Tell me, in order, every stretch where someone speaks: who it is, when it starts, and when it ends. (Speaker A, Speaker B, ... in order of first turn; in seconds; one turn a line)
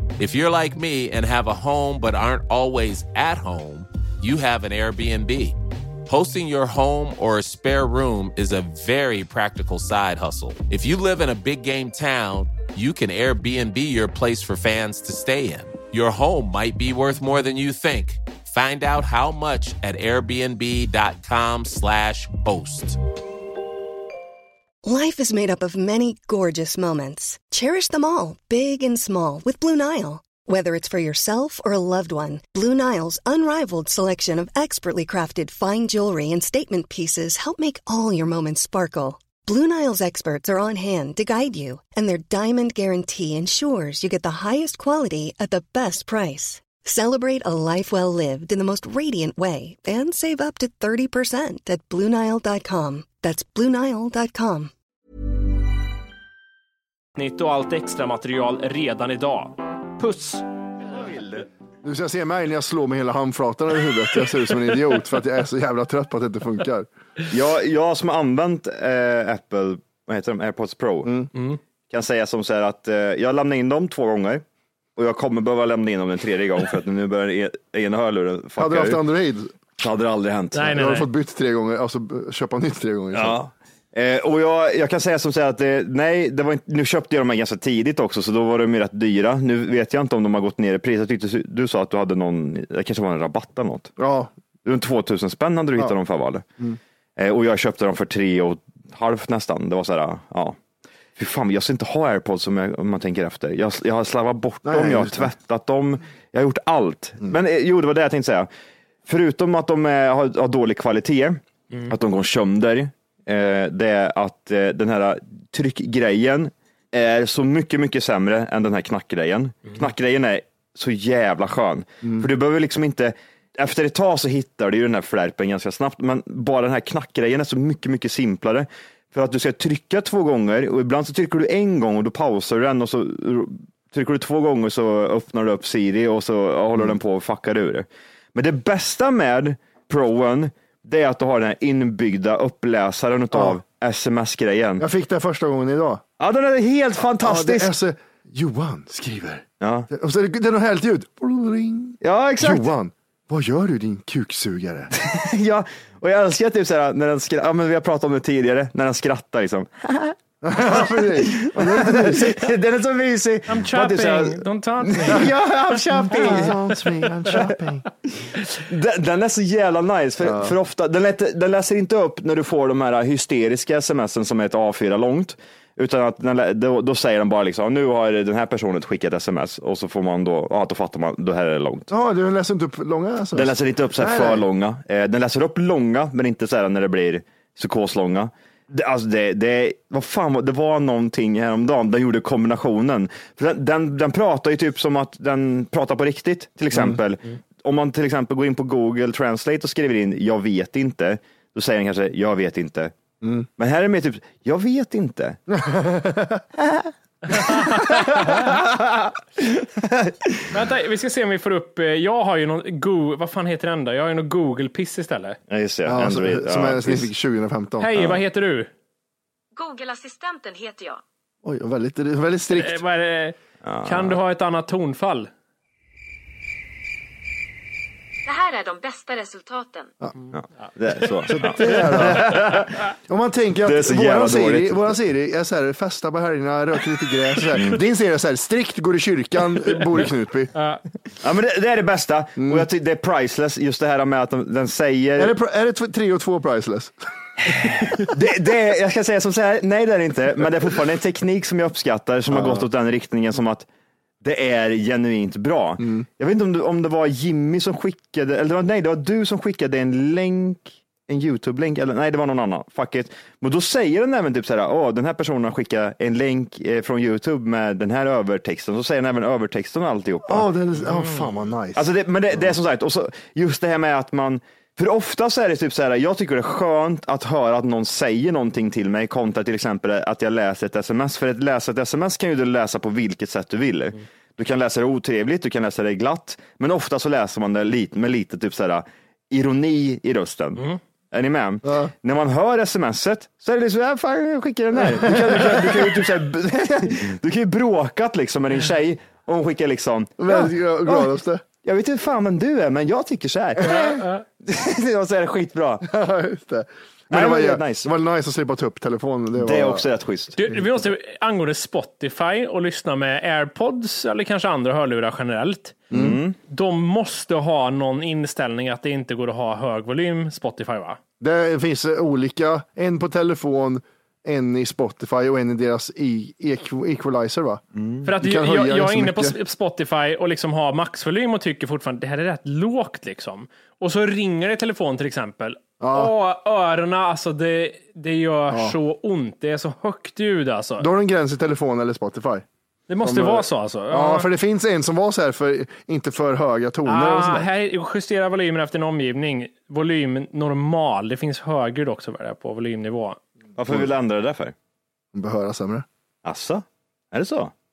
Speaker A: 0.2-23.0
Speaker B: 24.8-54.7
Speaker C: 57.2-60.5
Speaker D: 61.0-61.5
Speaker E: 61.8-66.9
Speaker D: 67.3-71.3
Speaker D: 71.9-74.4
Speaker D: 75.0-79.0
Speaker E: 78.6-79.5
Speaker D: 79.8-80.8
Speaker C: 80.5-81.1
Speaker E: 80.7-83.4
Speaker D: 83.1-93.9
Speaker E: 94.0-94.3
Speaker D: 94.7-96.4
Speaker D: 97.2-100.6
Speaker D: 101.2-108.5
Speaker E: 104.6-105.3
Speaker D: 109.1-144.9
Speaker E: 144.8-146.0
Speaker D: 146.2-147.7
Speaker E: 147.2-154.9
Speaker D: 149.6-149.9
Speaker D: 152.0-152.7
Speaker D: 154.9-167.5
Speaker E: 160.4-162.5
Speaker C: 163.5-165.3
Speaker E: 165.1-167.9
Speaker C: 166.2-166.5
Speaker D: 168.6-181.9
Speaker E: 170.2-170.6
Speaker E: 181.9-184.4
Speaker D: 183.3-202.9
Speaker E: 196.7-197.0
Speaker E: 203.2-203.5
Speaker D: 203.6-205.4
Speaker E: 205.5-206.4
Speaker D: 206.7-210.4
Speaker C: 207.3-208.4
Speaker C: 210.5-215.4
Speaker D: 215.5-217.1
Speaker E: 215.9-218.0
Speaker C: 217.8-218.7
Speaker F: 219.6-221.0
Speaker E: 221.4-222.8
Speaker C: 222.5-225.3
Speaker D: 223.6-224.2
Speaker F: 228.2-229.9
Speaker D: 230.3-232.8
Speaker E: 231.3-240.5
Speaker C: 232.3-232.5
Speaker D: 233.6-235.0
Speaker C: 240.5-240.8
Speaker D: 241.2-245.4
Speaker E: 242.4-242.7
Speaker E: 245.2-246.9
Speaker D: 247.5-253.7
Speaker E: 252.3-252.7
Speaker D: 254.2-270.5
Speaker E: 255.8-256.1
Speaker E: 270.3-272.5
Speaker D: 271.8-301.1
Speaker E: 291.6-291.9
Speaker E: 294.8-296.0
Speaker E: 300.2-301.4
Speaker D: 301.6-305.9
Speaker C: 303.6-304.2
Speaker E: 305.8-309.9
Speaker D: 307.1-307.9
Speaker D: 309.4-310.4
Speaker C: 310.4-315.9
Speaker E: 315.9-316.2
Speaker D: 315.9-316.4
Speaker C: 316.5-321.0
Speaker E: 321.2-329.4
Speaker D: 327.8-328.1
Speaker C: 328.1-340.9
Speaker E: 335.8-336.1
Speaker E: 338.5-338.8
Speaker E: 340.8-342.4
Speaker C: 342.9-344.3
Speaker E: 343.0-347.5
Speaker C: 346.9-353.2
Speaker D: 353.6-354.5
Speaker E: 355.1-355.9
Speaker D: 356.2-357.5